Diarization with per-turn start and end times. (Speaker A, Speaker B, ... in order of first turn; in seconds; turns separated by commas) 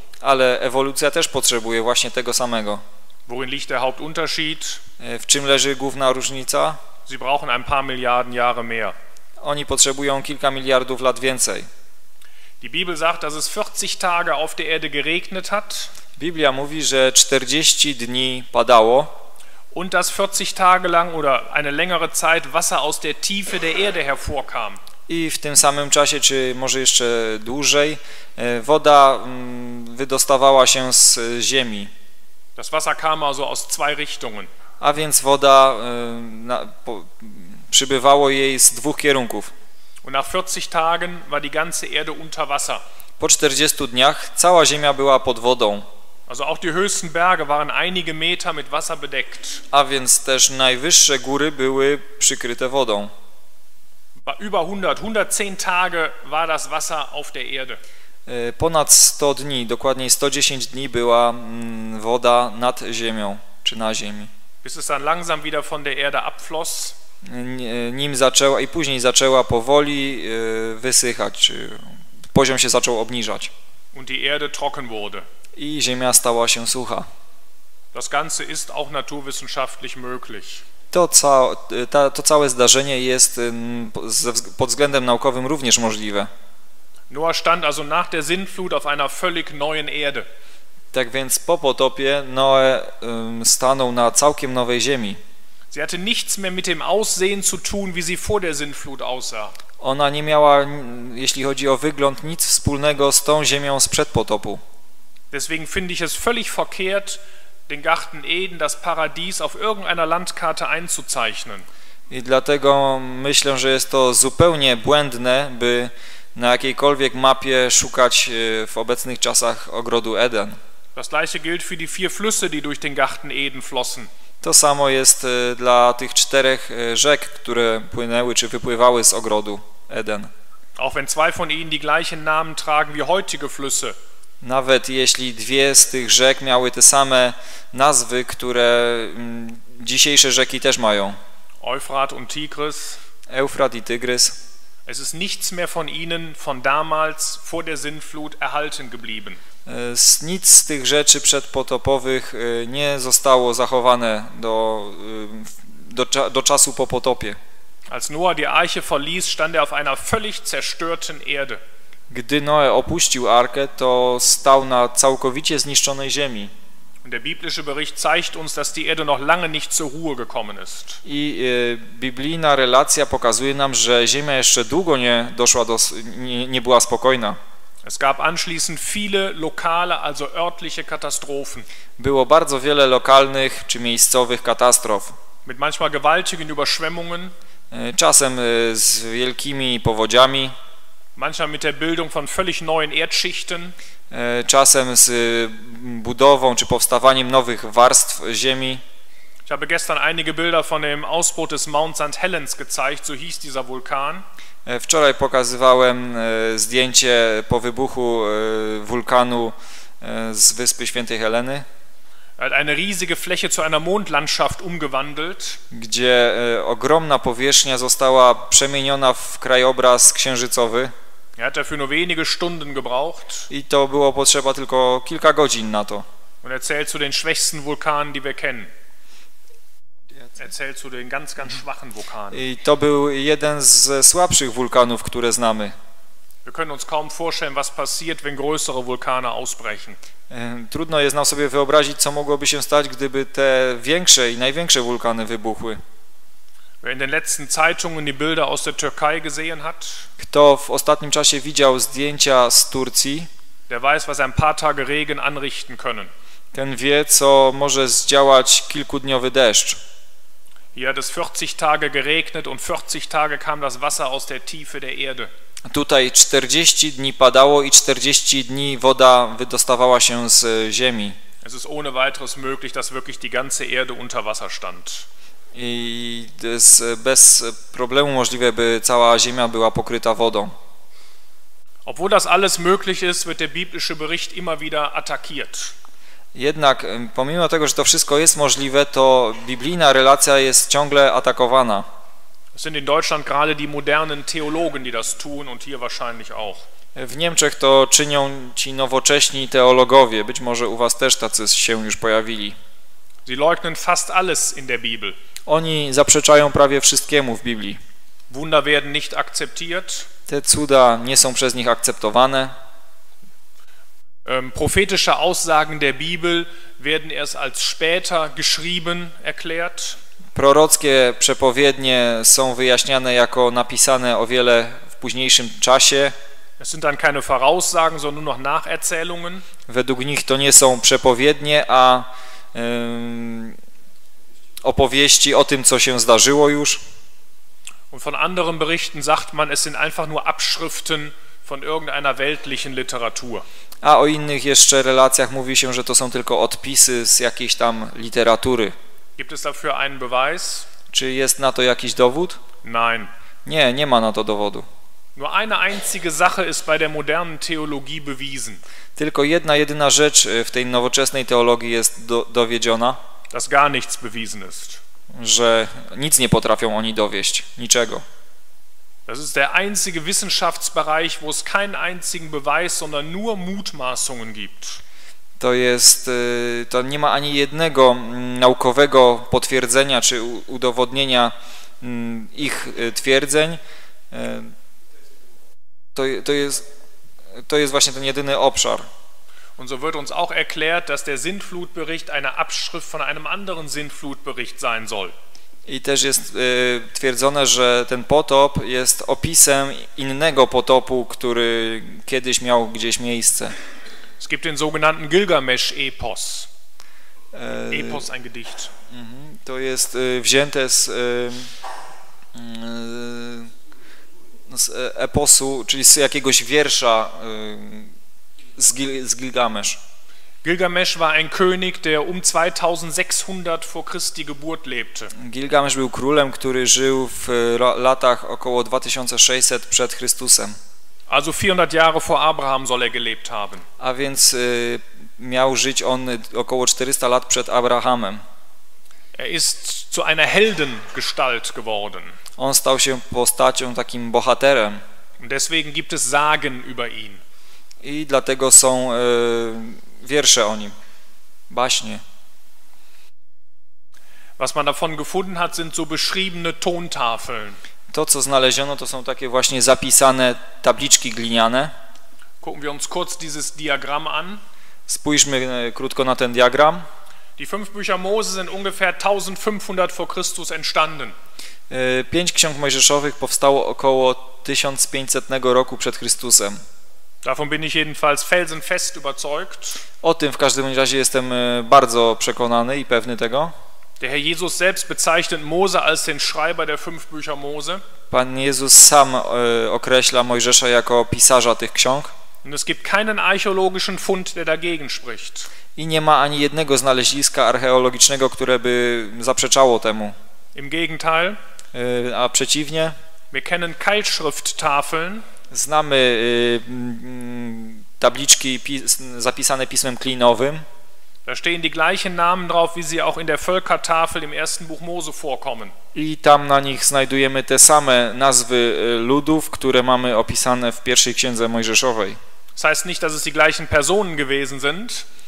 Speaker A: 0.2-2.8, Speaker B: 3.3-4.8, Speaker A: 5.0-6.8, Speaker B: 7.1-8.9, Speaker A: 9.4-11.7, Speaker B: 12.6-15.9, Speaker A: 16.2-19.1, Speaker B: 19.7-24.8, Speaker A: 25.1-31.9, Speaker B: 32.5-34.5, Speaker A: 34.8-39.5, Speaker B: 40.0-42.8, Speaker A: 43.2-45.9, Speaker B: 46.3-49.6, Speaker A: 49.7-53.1, Speaker B: 54.2-57.8, Speaker A: 58.3-64.3, Speaker B: 64.6-66.9, Speaker A: 67.2-73.5, Speaker B: 73.9-75.2, Speaker A: 75.5-77.1, Speaker B: 77.9-80.6, Speaker A: 80.9-86.3, Speaker B: 87.1-90.2, Speaker A: 90.9-95.2, Speaker B: 95.7-99.5, Speaker A: 99.8-104.6, Speaker B: 105.3-111.7, Speaker A: 112.1-120.6, Speaker B: 121.0-124.1, Speaker A: 124.4-130.3, Speaker B: 130.8-133.9, Speaker A: 134.4-141.2, Speaker B: 141.6-143.0, Speaker A: 143.3-144.4, Speaker B: 144.8-149.4, Speaker A: 149.7-157.4, Speaker B: 157.9-161.6, Speaker A: 162.1-166.5, Speaker B: 167.0-171.0, Speaker A: 171.0-177.4, Speaker B: 177.8-181.7, Speaker A: 182.0-185.2, Speaker B: 185.4-187.3, Speaker A: 187.7-190.5, Speaker B: 191.2-193.7, Speaker A: 194.1-198.8, Speaker B: 199.4-204.2, Speaker A: 204.7-211.7, Speaker B: 212.4-215.6, Speaker A: 215.7-220.9, Speaker B: 221.4-223.5, Speaker A: 223.5-226.1, Speaker B: 226.4-228.7, Speaker B: 230.4-232.4, Speaker A: 232.3-235.7, Speaker B: 236.4-240.0, Speaker A: 240.3-245.8, Speaker B: 246.8-250.1, Speaker A: 250.2-253.3, Speaker B: 253.7-256.1, Speaker A: 256.5-259.8, Speaker B: 260.7-265.3, Speaker A: 265.7-271.2, Speaker B: 271.4-275.1, Speaker A: 275.5-280.5, Speaker B: 281.9-285.7, Speaker A: 286.3-291.9, Speaker B: 292.5-296.6, Speaker A: 296.9-302.6, Speaker B: 303.2-305.1, Speaker A: 305.5-307.8, Speaker B: 308.3-310.1, Speaker A: 310.3-312.5, Speaker B: 314.2-320.0, Speaker A: 320.3-326.1, Speaker B: 326.6-329.4, Speaker A: 329.7-333.6, Speaker A: 334.6-336.8, Speaker B: 337.9-343.4, Speaker A: 343.8-348.7, Speaker B: 349.2-350.7, Speaker A: 350.9-352.4, Speaker B: 352.6-353.1, Speaker A: 353.4-354.6, Speaker B: 355.1-358.6, Speaker A: 359.0-363.0, Speaker B: 363.3-364.8, Speaker A: 365.1-368.0, Speaker B: 369.1-374.8, Speaker A: 375.4-383.6, Speaker A: 384.1-384.5, Speaker A: 385.9-386.6, Speaker A: 387.4-388.9, Speaker B: 389.6-395.1, Speaker A: 395.7-403.5, Speaker B: 404.2-406.5, Speaker A: 407.3-408.1, Speaker B: 407.7-408.7, Speaker A: 408.9-411.5, Speaker A: 412.3-413.5, Speaker A: 414.5-417.9, Speaker A: 418.6-419.8, Speaker B: 420.4-425.1, Speaker A: 425.1-430.6, Speaker B: 431.1-433.6, Speaker A: 433.8-438.2, Speaker B: 439.1-442.1, Speaker A: 442.4-444.8, Speaker B: 445.2-447.2, Speaker A: 447.8-450.8, Speaker A: 451.5-452.0, Speaker B: 454.4-457.6, Speaker A: 457.9-461.7, Speaker B: 462.4-464.4, Speaker A: 464.9-466.9, Speaker B: 467.4-471.1, Speaker A: 471.7-476.6, Speaker B: 477.2-479.8, Speaker A: 480.0-483.5, Speaker B: 484.0-487.8, Speaker A: 488.1-492.1, Speaker B: 492.4-495.5, Speaker A: 495.8-500.1, Speaker B: 500.5-501.4, Speaker A: 501.7-502.9, Speaker B: 503.3-505.2, Speaker A: 505.5-510.6, Speaker B: 511.2-515.7, Speaker A: 515.9-522.2, Speaker B: 522.5-525.0